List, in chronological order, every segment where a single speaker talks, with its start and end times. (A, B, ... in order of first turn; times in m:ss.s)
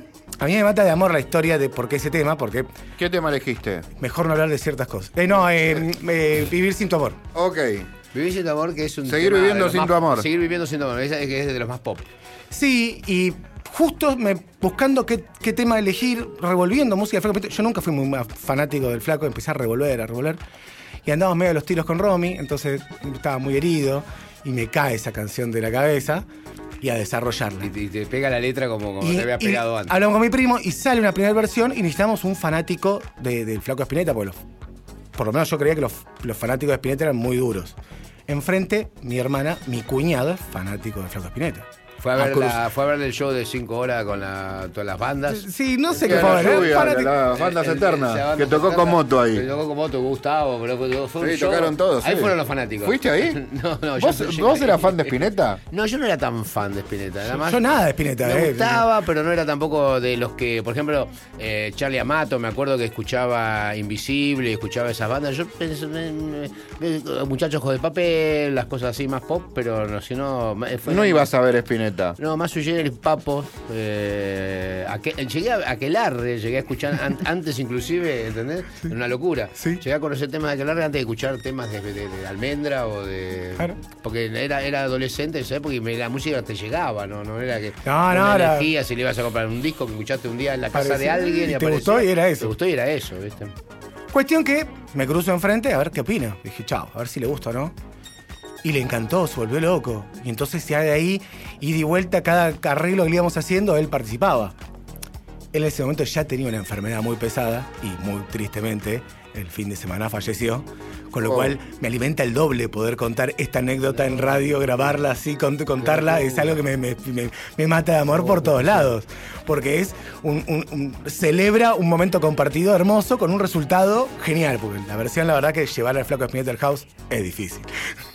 0:00.4-0:02.7 A
0:03.0-0:03.9 B
0:04.0-0:07.2 A
0:07.3-0:07.9 B
0:08.1-0:12.1 C
0:09.0-0:10.3 B
0:12.5-0:20.4 A
0:21.0-0:26.2 A
0:26.8-0:27.7 A
0:27.6-0:30.0 C
0:29.0-0:34.4 A
0:35.1-0:37.7 A
0:38.3-0:41.7 A
0:42.0-0:57.6 C
0:42.2-0:42.5 A
0:45.3-0:47.2 A
0:46.0-0:49.5 B
0:51.2-0:53.4 B
0:54.0-0:55.6 B
0:57.3-0:58.8 A
0:58.2-1:11.3 C
1:10.8-1:12.2 B
1:12.2-1:33.5 C
1:27.8-1:28.7 A
1:30.7-1:32.5 A
1:34.1-1:37.7 A
1:38.6-1:44.5 A
1:45.5-2:07.7 A
1:51.2-1:51.6 B